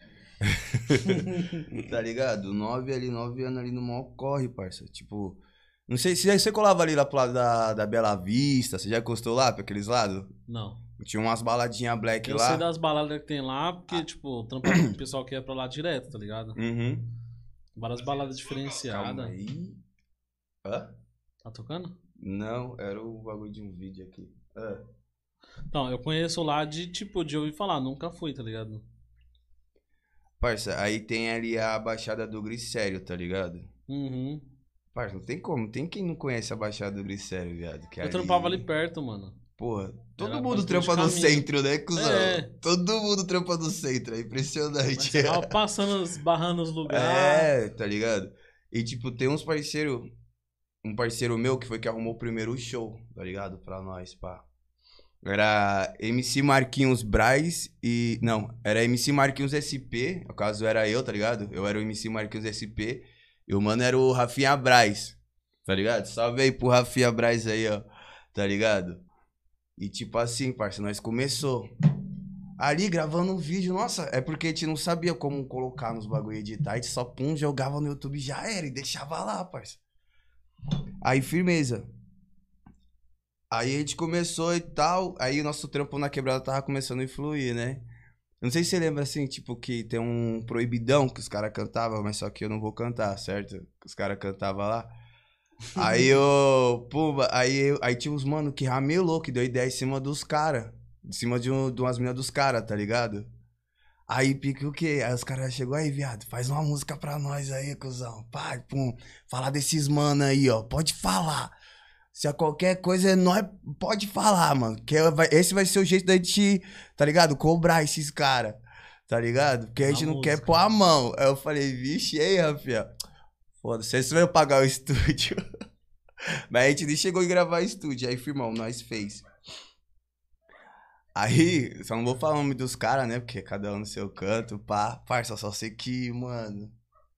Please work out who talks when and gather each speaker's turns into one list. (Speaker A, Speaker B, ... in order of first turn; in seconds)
Speaker A: 0.4-10.3, 11.0-12.6, 16.6-17.1, 18.9-19.8, 20.6-20.9, 22.2-24.8, 30.4-33.7, 34.9-38.6, 39.6-45.5, 46.9-50.1, 50.8-54.4, 55.2-69.0, 69.8-71.7, 72.6-79.8, 81.0-81.9, 83.5-87.8, 88.4-94.9, 95.8-103.3, 104.1-111.5, 112.1-122.9, 123.6-125.4, 126.5-129.2, 131.2-136.7
Speaker B: 1.1-1.6, 10.5-10.8, 12.2-16.6, 17.8-19.3, 21.4-21.9, 25.7-28.8, 33.9-34.4, 38.0-39.4, 40.2-42.5, 45.0-47.5, 95.8-96.0, 119.9-120.6